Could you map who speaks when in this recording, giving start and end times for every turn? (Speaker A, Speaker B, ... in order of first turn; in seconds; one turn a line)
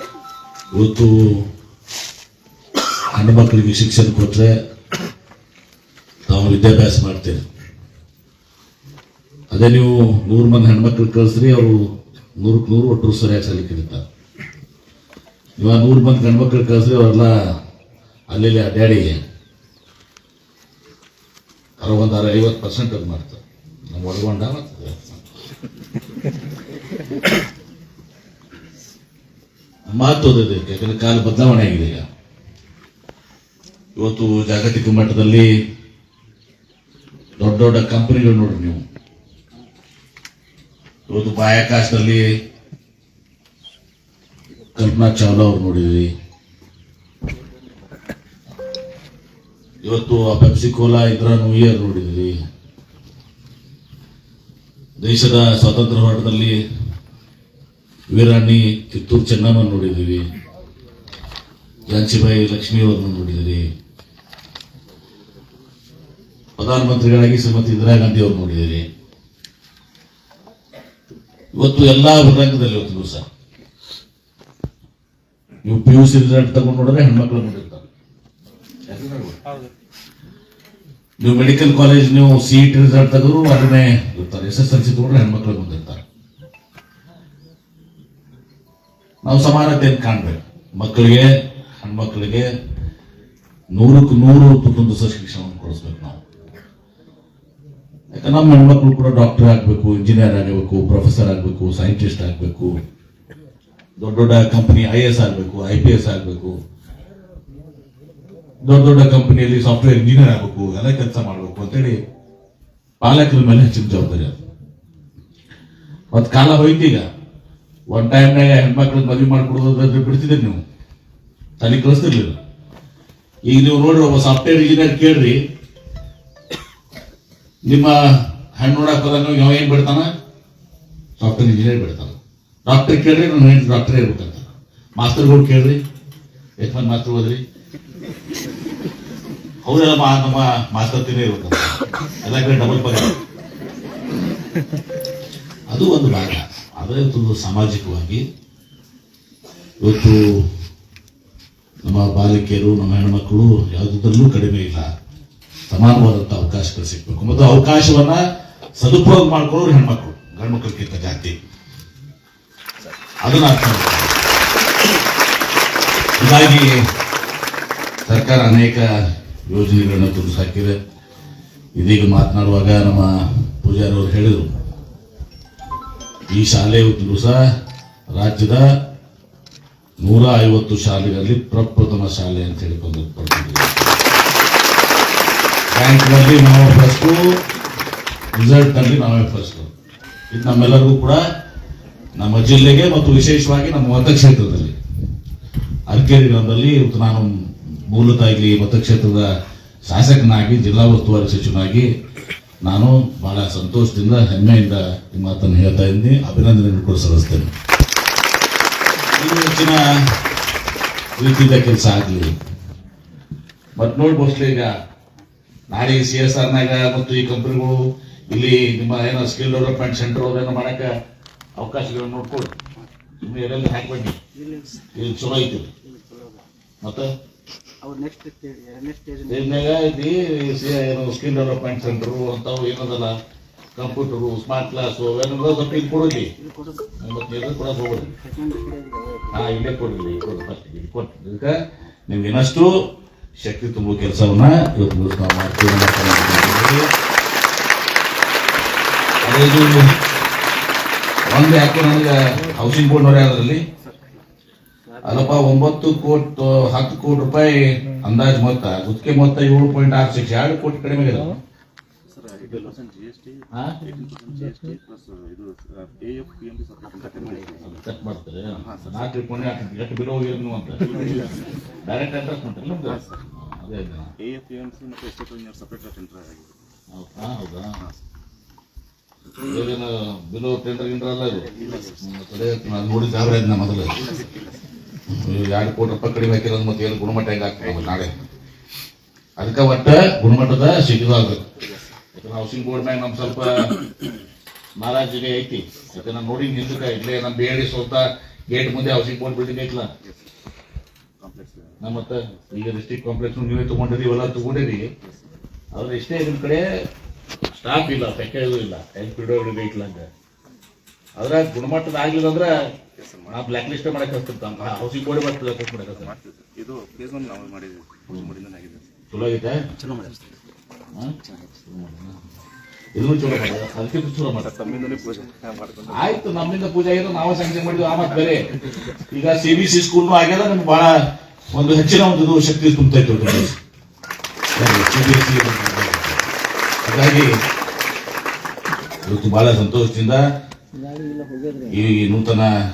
Speaker A: 0.7-1.4
Speaker A: 3.1-4.5
Speaker A: 6.3-7.4
Speaker A: 9.5-11.8
Speaker A: 12.4-14.0
Speaker A: 15.6-17.3
Speaker A: 18.3-19.2
Speaker A: 21.8-23.4
Speaker A: 23.9-25.2
Speaker A: 29.9-32.0
Speaker A: 34.0-35.5
Speaker A: 37.4-38.8
Speaker A: 41.1-42.3
Speaker A: 44.7-46.1
Speaker A: 49.8-52.4
Speaker A: 55.0-56.6
Speaker A: 58.1-60.2
Speaker A: 61.9-63.6
Speaker A: 66.6-68.8
Speaker A: 71.5-73.2
Speaker A: 75.6-77.9
Speaker A: 78.9-79.4
Speaker A: 81.2-86.0
Speaker A: 89.2-92.5
Speaker A: 93.7-96.2
Speaker A: 98.1-102.7
Speaker A: 104.0-106.5
Speaker A: 108.7-112.0
Speaker A: 113.0-114.4
Speaker A: 116.1-117.0
Speaker A: 117.9-120.6
Speaker A: 121.6-122.3
Speaker A: 123.5-125.4
Speaker A: 127.6-128.0
Speaker A: 128.5-130.1
Speaker A: 131.2-135.8
Speaker A: 136.6-137.4
Speaker A: 139.6-143.2
Speaker A: 145.7-148.2
Speaker A: 149.8-150.4
Speaker A: 151.8-154.9
Speaker A: 155.7-158.2
Speaker A: 158.8-161.3
Speaker A: 163.2-164.1
Speaker A: 166.2-166.7
Speaker A: 168.1-168.9
Speaker A: 169.4-170.8
Speaker A: 171.8-174.5
Speaker A: 176.3-177.4
Speaker A: 178.1-178.7
Speaker A: 180.0-183.9
Speaker A: 185.7-187.3
Speaker A: 188.3-189.7
Speaker A: 190.3-191.2
Speaker A: 192.2-194.8
Speaker A: 195.9-197.3
Speaker A: 197.9-199.3
Speaker A: 199.8-201.9
Speaker A: 202.6-207.5
Speaker A: 209.1-209.9
Speaker A: 211.2-212.3
Speaker A: 213.8-214.7
Speaker A: 215.7-217.8
Speaker A: 218.3-220.9
Speaker A: 221.6-222.5
Speaker A: 223.2-224.2
Speaker A: 224.9-225.7
Speaker B: 225.8-226.4
Speaker A: 226.8-227.1
Speaker B: 227.8-229.3
Speaker A: 229.2-233.1
Speaker A: 233.8-236.3
Speaker B: 236.3-236.8
Speaker A: 237.0-238.2
Speaker B: 238.3-239.3
Speaker A: 239.3-241.5
Speaker A: 242.1-242.7
Speaker A: 243.4-246.9
Speaker A: 249.2-249.9
Speaker A: 251.3-253.6
Speaker A: 255.0-261.4
Speaker C: 262.1-267.7
Speaker A: 263.5-263.8
Speaker A: 267.6-271.1
Speaker C: 268.7-269.0
Speaker C: 270.9-271.5
Speaker A: 271.8-274.1
Speaker C: 272.9-273.2
Speaker C: 274.2-276.6
Speaker A: 276.9-277.8
Speaker A: 279.4-284.0
Speaker C: 284.0-284.6
Speaker A: 285.1-288.2
Speaker A: 289.4-291.5
Speaker A: 292.1-293.8
Speaker A: 294.8-299.9
Speaker C: 301.2-301.9
Speaker A: 301.8-304.9
Speaker A: 305.7-306.6
Speaker A: 307.5-310.1
Speaker A: 311.2-312.7
Speaker C: 313.0-313.5
Speaker A: 313.3-316.1
Speaker C: 316.0-318.9
Speaker A: 319.1-319.6
Speaker A: 321.7-322.2
Speaker A: 322.9-324.6
Speaker C: 324.4-326.1
Speaker A: 325.9-333.6
Speaker A: 334.6-336.2
Speaker A: 336.8-337.3
Speaker A: 339.0-340.2
Speaker B: 340.8-341.7
Speaker A: 341.7-342.5